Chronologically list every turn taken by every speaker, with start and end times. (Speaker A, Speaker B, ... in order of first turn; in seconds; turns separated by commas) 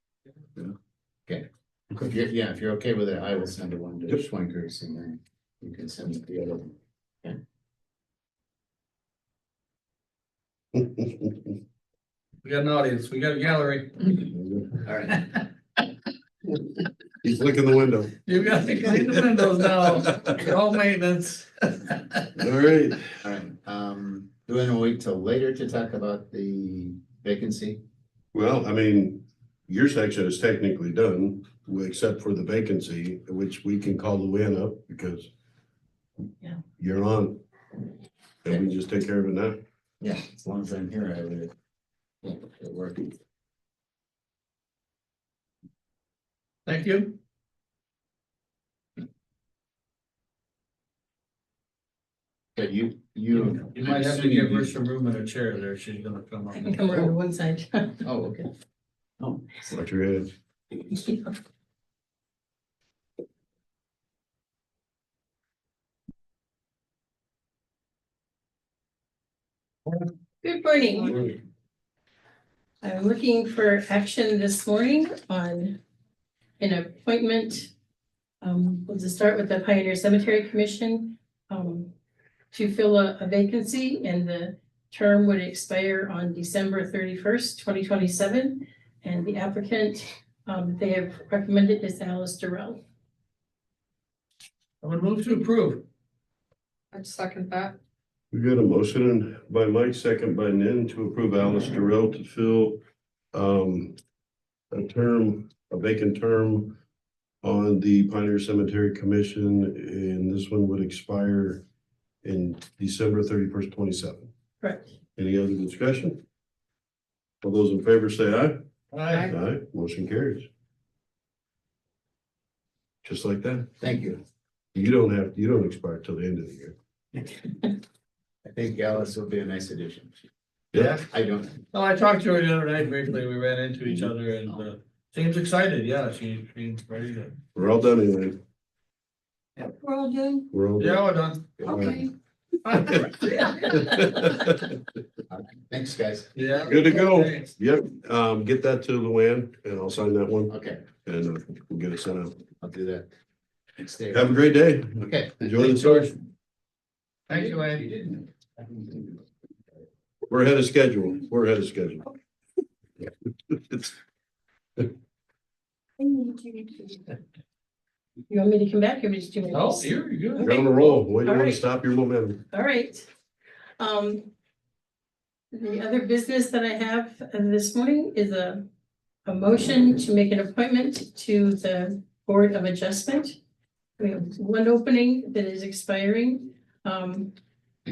Speaker A: 1.3-7.4, Speaker B: 10.8-11.4, Speaker C: 12.4-14.3, Speaker B: 14.3-14.7, Speaker A: 14.8-15.3, Speaker C: 15.1-15.5, Speaker B: 17.2-18.2, Speaker C: 18.2-22.4, Speaker B: 22.4-23.2, Speaker A: 23.2-27.8, Speaker B: 28.3-35.3, Speaker B: 36.8-37.4, Speaker B: 38.4-39.6, Speaker A: 40.0-41.5, Speaker A: 42.2-43.1, Speaker C: 46.7-47.2, Speaker A: 52.6-54.7, Speaker C: 53.4-56.8, Speaker D: 56.5-58.3, Speaker A: 58.0-58.5, Speaker A: 59.2-59.7, Speaker B: 59.7-60.3, Speaker D: 60.9-61.3, Speaker D: 70.4-71.4, Speaker D: 72.8-75.8, Speaker D: 76.6-77.7, Speaker D: 78.4-81.9, Speaker D: 82.5-92.8, Speaker C: 94.8-95.8, Speaker E: 96.9-97.8, Speaker B: 98.3-102.8, Speaker B: 103.3-104.0, Speaker B: 104.7-106.8, Speaker B: 107.4-111.6, Speaker B: 112.2-114.3, Speaker D: 114.6-114.9, Speaker B: 115.2-116.2, Speaker B: 117.4-118.6, Speaker C: 118.9-119.3, Speaker B: 119.1-120.5, Speaker B: 123.0-123.7, Speaker A: 123.8-124.2, Speaker B: 124.8-126.8, Speaker A: 128.4-130.1, Speaker B: 130.7-131.0, Speaker C: 130.8-131.0, Speaker A: 131.1-131.6, Speaker C: 131.7-137.4, Speaker B: 137.6-138.4, Speaker E: 139.6-140.5, Speaker B: 140.5-141.1, Speaker C: 140.8-141.8, Speaker A: 141.6-141.9, Speaker B: 141.6-142.1, Speaker E: 141.7-142.1, Speaker C: 142.7-143.8, Speaker B: 143.7-144.7, Speaker A: 145.3-146.3, Speaker C: 146.3-147.5, Speaker B: 146.7-152.4, Speaker A: 150.5-150.9, Speaker A: 152.6-153.1, Speaker A: 153.8-154.4, Speaker B: 154.1-156.1, Speaker A: 155.0-155.7, Speaker C: 155.7-156.1, Speaker C: 157.3-157.9, Speaker A: 157.3-159.2, Speaker B: 160.3-162.1, Speaker B: 163.5-163.9, Speaker D: 166.0-167.0, Speaker D: 168.3-171.6, Speaker C: 169.5-171.0, Speaker B: 170.4-172.4, Speaker D: 172.5-173.1, Speaker D: 173.8-174.3, Speaker D: 175.5-178.7, Speaker D: 179.2-183.4, Speaker D: 184.0-187.3